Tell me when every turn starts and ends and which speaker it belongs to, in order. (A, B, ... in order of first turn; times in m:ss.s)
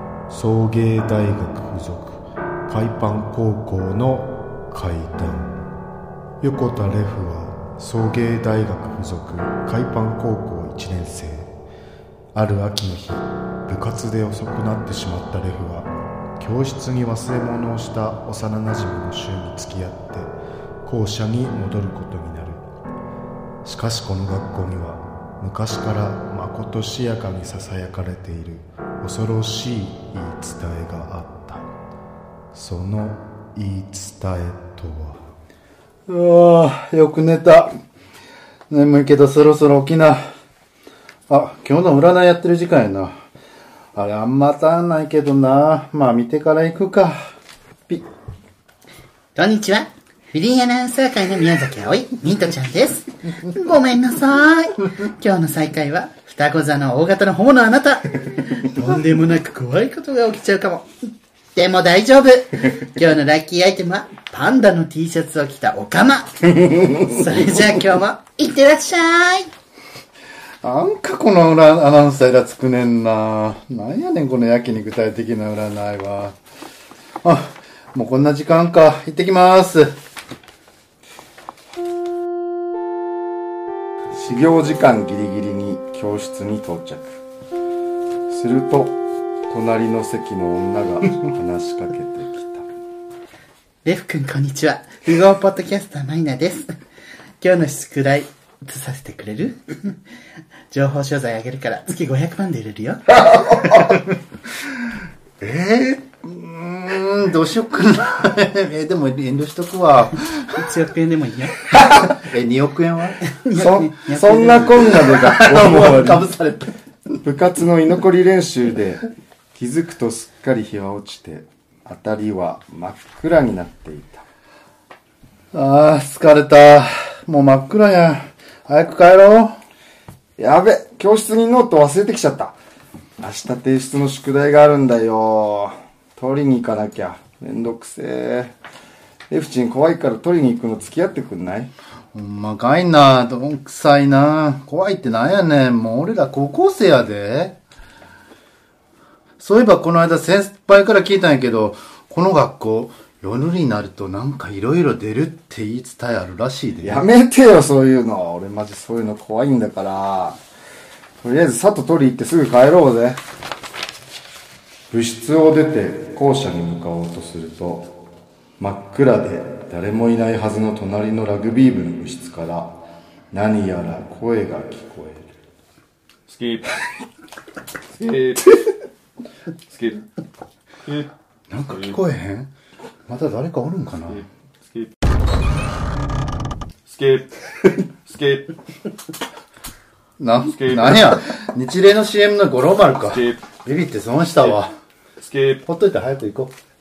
0:00.3-0:05.5 A
0:06.4-0:11.5 A
0:12.3-0:22.6 A
0:23.6-0:31.7 A
0:32.5-0:35.2 A
0:36.1-0:37.7 B
0:38.7-0:40.2 B
0:41.3-0:43.2 B
0:44.0-0:47.3 B
0:49.4-1:09.5 C
1:10.6-1:16.4 B
1:17.2-1:20.0 B
1:24.2-1:27.2 D
1:28.3-1:32.7 D
1:33.8-1:36.7 C
1:37.4-1:40.0 C
1:40.7-1:43.9 C
1:45.4-1:50.6 B
1:50.5-1:51.9 C
1:51.8-1:53.2 B
1:53.4-1:55.0 C
1:53.5-1:56.3 D
1:54.8-1:57.2 B
1:57.2-1:59.0 D
1:59.6-2:04.2 D
2:05.5-2:09.6 B
2:10.4-2:12.6 D
2:13.2-2:18.5 D
2:19.3-2:21.7 D
2:22.1-2:27.6 B
2:29.4-2:37.1 B
2:36.8-2:40.4 D
2:41.2-2:43.2 D
2:44.9-2:47.9 D
2:48.6-2:52.7 D
2:53.3-2:55.3 D
2:56.3-2:56.7 E
2:57.9-2:58.7 E
2:59.7-3:00.1 E
3:00.9-3:01.1 E
3:01.5-3:02.5 B
3:01.7-3:02.0 E
3:03.1-3:04.2 B
3:04.1-3:04.9 E
3:06.9-3:08.5 E
3:10.2-3:14.7 B
3:10.5-3:11.2 E
3:13.1-3:13.4 E
3:15.2-3:15.6 E
3:15.7-3:16.5 B